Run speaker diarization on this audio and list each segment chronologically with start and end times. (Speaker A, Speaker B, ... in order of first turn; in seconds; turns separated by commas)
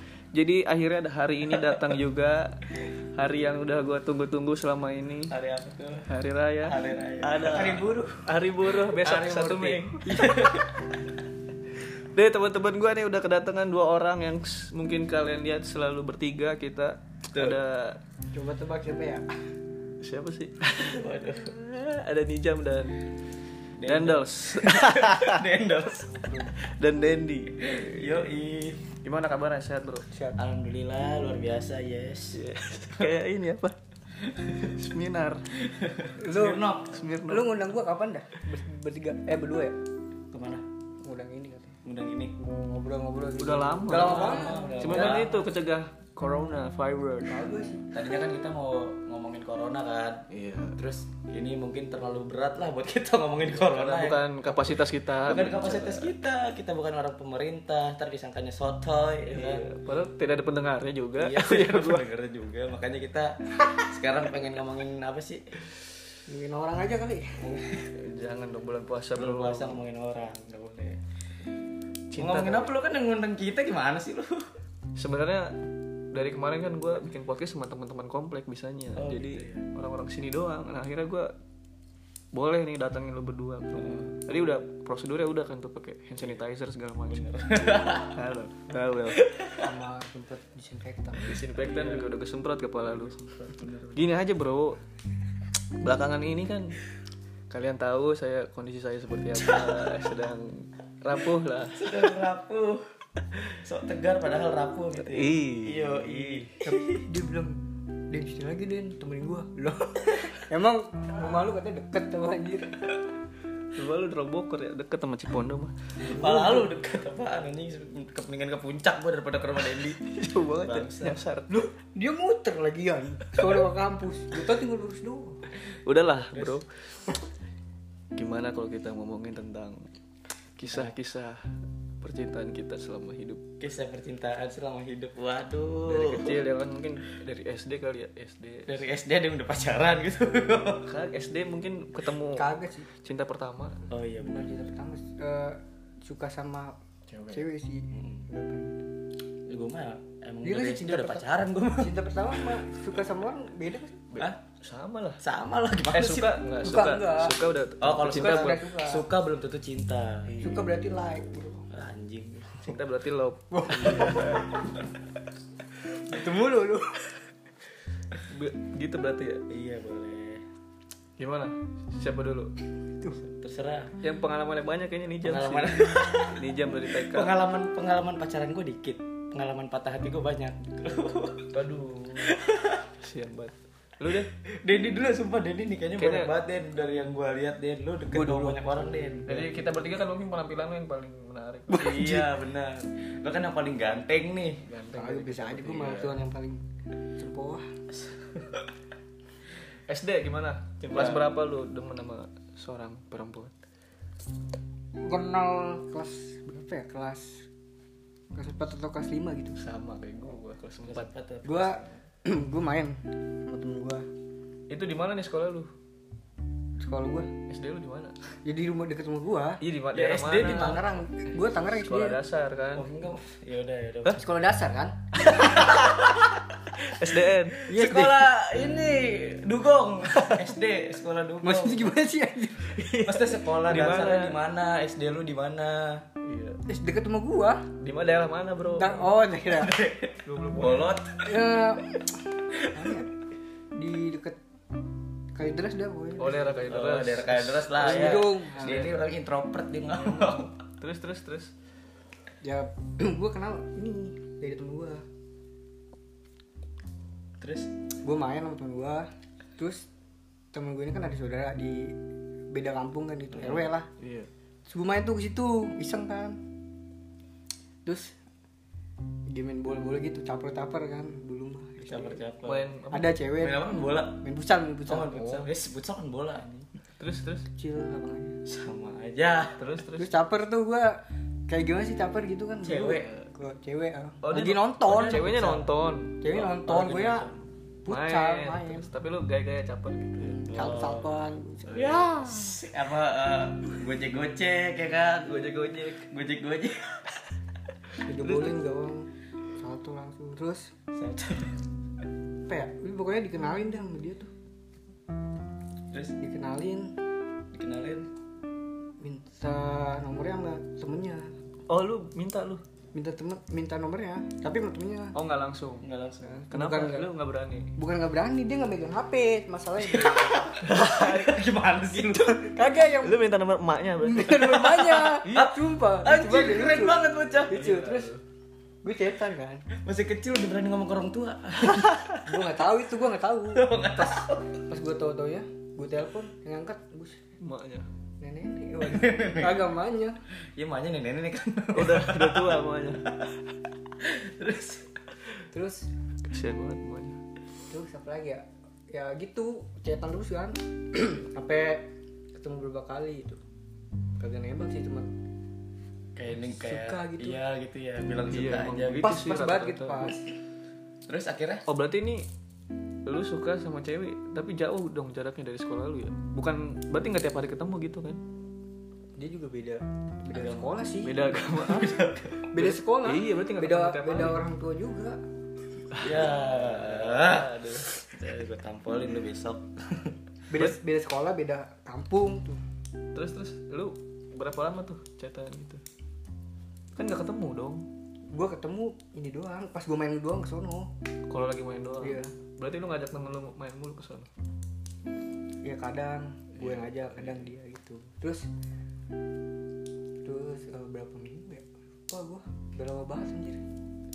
Speaker A: 0.3-2.6, Speaker B: 1.6-1.9, Speaker A: 3.2-5.3, Speaker B: 5.3-6.1, Speaker A: 6.1-10.5, Speaker B: 6.6-8.0, Speaker C: 7.5-8.2, Speaker B: 8.7-10.7, Speaker C: 10.1-10.4, Speaker A: 11.8-18.0, Speaker C: 18.3-19.2, Speaker A: 20.0-23.0, Speaker B: 20.8-21.6, Speaker B: 23.8-26.2, Speaker A: 23.9-25.4, Speaker C: 26.1-26.5, Speaker A: 26.5-28.2, Speaker B: 27.6-28.9, Speaker A: 29.0-30.1, Speaker C: 30.1-30.4, Speaker B: 30.4-32.4, Speaker A: 32.3-33.8, Speaker A: 34.5-35.5, Speaker B: 35.6-37.1, Speaker C: 36.2-36.7, Speaker A: 36.9-37.7, Speaker C: 37.3-39.8, Speaker B: 40.3-40.6, Speaker C: 41.0-41.8, Speaker B: 41.9-42.3, Speaker C: 42.4-45.3, Speaker A: 43.4-47.4, Speaker B: 43.9-45.5, Speaker C: 47.3-47.9, Speaker B: 47.8-50.2, Speaker A: 50.3-50.8, Speaker B: 50.8-59.7, Speaker A: 53.7-56.1, Speaker A: 59.3-62.1, Speaker B: 61.2-65.5, Speaker C: 66.3-67.4, Speaker B: 67.4-67.9, Speaker A: 68.0-69.8, Speaker B: 69.2-71.0, Speaker A: 72.1-72.7, Speaker B: 72.2-74.5, Speaker A: 75.0-75.6, Speaker A: 76.1-81.3, Speaker B: 79.0-79.7, Speaker A: 82.3-87.3, Speaker B: 83.8-84.1, Speaker B: 87.1-88.2, Speaker A: 88.0-89.2, Speaker B: 89.1-89.7, Speaker C: 89.6-91.4, Speaker A: 91.3-93.3, Speaker B: 91.5-92.1, Speaker B: 92.9-94.1, Speaker A: 93.9-94.8, Speaker A: 95.8-96.8, Speaker A: 97.5-102.1, Speaker B: 99.4-100.0, Speaker B: 101.7-107.0, Speaker A: 105.0-106.6, Speaker C: 106.6-107.6, Speaker C: 108.1-112.9, Speaker A: 113.7-115.8, Speaker C: 116.0-116.7, Speaker B: 116.1-120.0, Speaker A: 120.0-121.5, Speaker B: 120.6-121.2, Speaker C: 121.5-125.4, Speaker A: 125.8-126.7, Speaker B: 126.1-126.6, Speaker A: 128.2-129.8, Speaker A: 130.6-131.5, Speaker A: 132.0-133.4, Speaker B: 133.6-136.4, Speaker A: 135.9-138.8, Speaker B: 138.7-140.9, Speaker A: 140.9-143.8, Speaker C: 142.3-142.9, Speaker B: 143.9-144.5, Speaker C: 144.2-146.8, Speaker A: 147.1-147.4, Speaker C: 147.3-148.9, Speaker B: 147.9-148.3, Speaker B: 149.5-152.7, Speaker C: 150.4-154.1, Speaker A: 154.1-155.2, Speaker B: 155.2-156.4, Speaker A: 155.9-158.6, Speaker C: 156.6-157.4, Speaker B: 157.8-160.4, Speaker C: 158.0-159.1, Speaker A: 160.2-160.7, Speaker C: 160.4-161.7, Speaker B: 161.7-162.8, Speaker A: 162.6-164.4, Speaker C: 163.5-164.6, Speaker B: 163.7-164.4, Speaker C: 166.0-167.2, Speaker A: 168.3-169.4, Speaker B: 169.5-170.4, Speaker A: 171.2-172.5, Speaker B: 173.2-173.9, Speaker A: 174.0-177.3, Speaker B: 175.2-181.6, Speaker A: 181.5-182.4, Speaker B: 182.2-182.9, Speaker A: 183.0-184.3, Speaker B: 184.4-189.5, Speaker A: 186.0-186.3, Speaker C: 188.1-188.6, Speaker A: 189.3-192.2, Speaker B: 191.7-194.6, Speaker A: 194.7-196.2, Speaker C: 194.9-196.6, Speaker C: 197.2-197.7, Speaker B: 197.9-198.7, Speaker A: 199.9-203.5, Speaker B: 200.9-201.2, Speaker C: 205.0-207.5, Speaker C: 208.3-209.6, Speaker A: 209.6-211.1, Speaker B: 210.8-211.9, Speaker C: 211.4-214.1, Speaker A: 214.7-215.7, Speaker C: 216.8-217.3, Speaker A: 217.5-218.2, Speaker C: 218.4-219.6, Speaker A: 219.6-220.9, Speaker B: 219.9-220.9, Speaker C: 220.4-222.2, Speaker A: 221.6-222.9, Speaker B: 222.8-224.2, Speaker C: 224.1-225.9, Speaker A: 225.3-226.2, Speaker B: 225.3-231.9, Speaker A: 226.8-227.6, Speaker C: 227.7-228.3, Speaker C: 231.4-233.1, Speaker A: 232.8-234.4, Speaker B: 232.9-236.1, Speaker A: 236.2-236.6, Speaker C: 236.7-237.7, Speaker A: 237.8-239.1, Speaker C: 238.6-239.8, Speaker B: 239.5-241.4, Speaker A: 240.2-241.0, Speaker C: 241.2-243.1, Speaker C: 243.7-244.4, Speaker C: 245.3-246.6, Speaker A: 246.2-249.0, Speaker B: 246.7-250.5, Speaker C: 247.8-248.9, Speaker A: 250.0-251.5, Speaker C: 252.4-255.1, Speaker B: 257.4-257.7, Speaker C: 258.0-259.9, Speaker C: 260.5-262.0, Speaker C: 262.5-263.9, Speaker B: 263.4-263.6, Speaker A: 264.0-264.3, Speaker C: 264.7-266.4, Speaker C: 267.9-268.2, Speaker C: 269.3-272.2, Speaker B: 271.8-272.7, Speaker A: 272.4-273.2, Speaker C: 272.9-275.2, Speaker B: 273.4-274.2, Speaker B: 274.9-276.5, Speaker A: 275.1-275.5, Speaker A: 277.0-277.5, Speaker C: 277.5-278.4, Speaker B: 278.5-279.8, Speaker A: 279.6-280.1, Speaker C: 280.0-285.6, Speaker B: 282.6-283.2, Speaker A: 284.2-286.9, Speaker B: 284.9-285.6, Speaker C: 286.2-287.3, Speaker B: 286.3-287.3, Speaker C: 287.9-288.9, Speaker A: 287.9-290.4, Speaker C: 290.2-292.1, Speaker B: 290.5-295.4, Speaker A: 291.7-292.2, Speaker A: 295.2-296.1, Speaker B: 296.0-297.1, Speaker C: 298.1-300.7, Speaker A: 298.2-298.6, Speaker B: 300.9-301.6, Speaker C: 302.5-304.3, Speaker C: 306.2-307.0, Speaker B: 307.5-308.1, Speaker C: 309.0-311.3, Speaker A: 311.7-312.6, Speaker C: 312.9-315.1, Speaker A: 315.1-315.9, Speaker B: 315.8-316.2, Speaker C: 316.2-317.1, Speaker A: 316.5-317.7, Speaker C: 317.8-320.5, Speaker B: 319.8-322.4, Speaker A: 320.6-321.5, Speaker A: 322.0-325.5, Speaker C: 322.3-323.2, Speaker C: 324.0-328.1, Speaker B: 325.2-327.7, Speaker A: 327.5-328.2, Speaker C: 328.8-329.6, Speaker B: 329.8-332.2, Speaker A: 331.7-331.9, Speaker C: 332.2-337.2, Speaker B: 333.5-334.6, Speaker A: 337.4-337.9, Speaker C: 338.2-340.2, Speaker B: 338.8-339.7, Speaker B: 340.6-343.4, Speaker A: 341.7-343.1, Speaker B: 344.0-345.1, Speaker C: 345.5-345.9, Speaker A: 346.3-347.2, Speaker C: 347.7-353.4, Speaker C: 354.2-355.1, Speaker B: 356.2-359.2, Speaker C: 356.3-357.4, Speaker A: 358.3-360.1, Speaker C: 359.0-360.2, Speaker B: 361.1-361.7, Speaker A: 361.7-362.3, Speaker A: 363.1-368.2, Speaker C: 369.2-371.2, Speaker B: 370.3-370.8, Speaker A: 371.0-374.4, Speaker B: 371.4-372.5, Speaker C: 372.5-375.2, Speaker A: 375.9-377.9, Speaker B: 376.0-380.2, Speaker C: 380.5-382.6, Speaker A: 383.1-385.8, Speaker A: 387.0-387.9, Speaker C: 388.3-390.9, Speaker A: 391.3-394.3, Speaker C: 392.0-392.3, Speaker C: 395.6-398.5, Speaker A: 396.6-397.5, Speaker C: 400.2-403.6